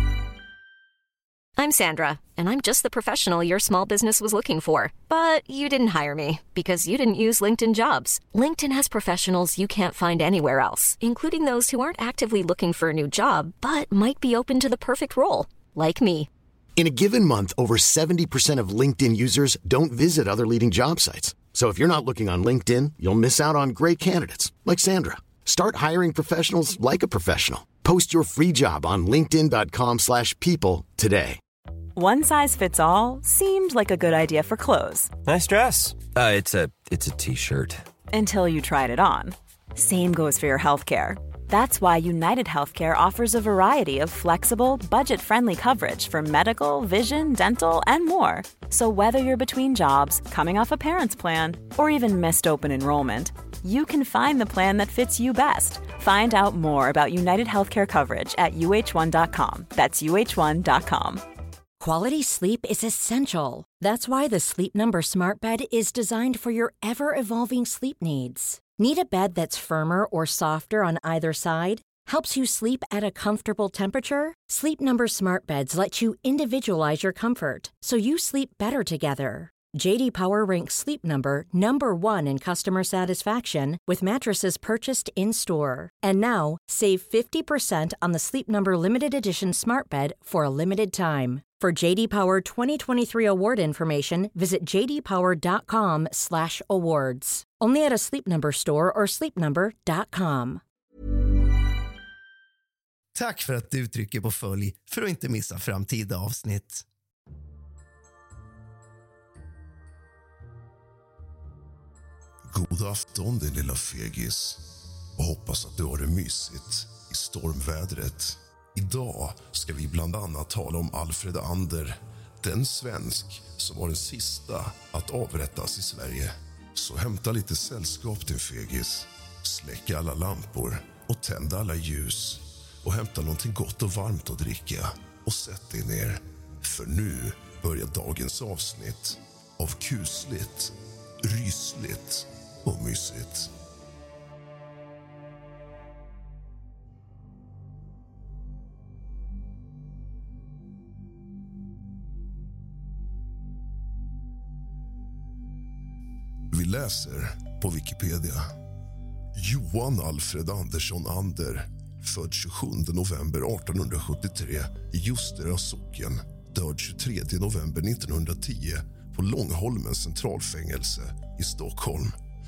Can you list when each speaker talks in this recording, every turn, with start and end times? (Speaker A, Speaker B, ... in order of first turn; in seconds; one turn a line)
Speaker A: 1.6-16.3
Speaker B: 16.8-31.4
Speaker C: 32.0-35.1
Speaker D: 35.3-37.8
Speaker C: 38.1-61.2
Speaker E: 61.8-100.6
Speaker F: 103.1-106.9
Speaker G: 112.5-114.6
Speaker G: 115.2-143.5
Speaker G: 156.5-158.5
Speaker G: 159.3-172.2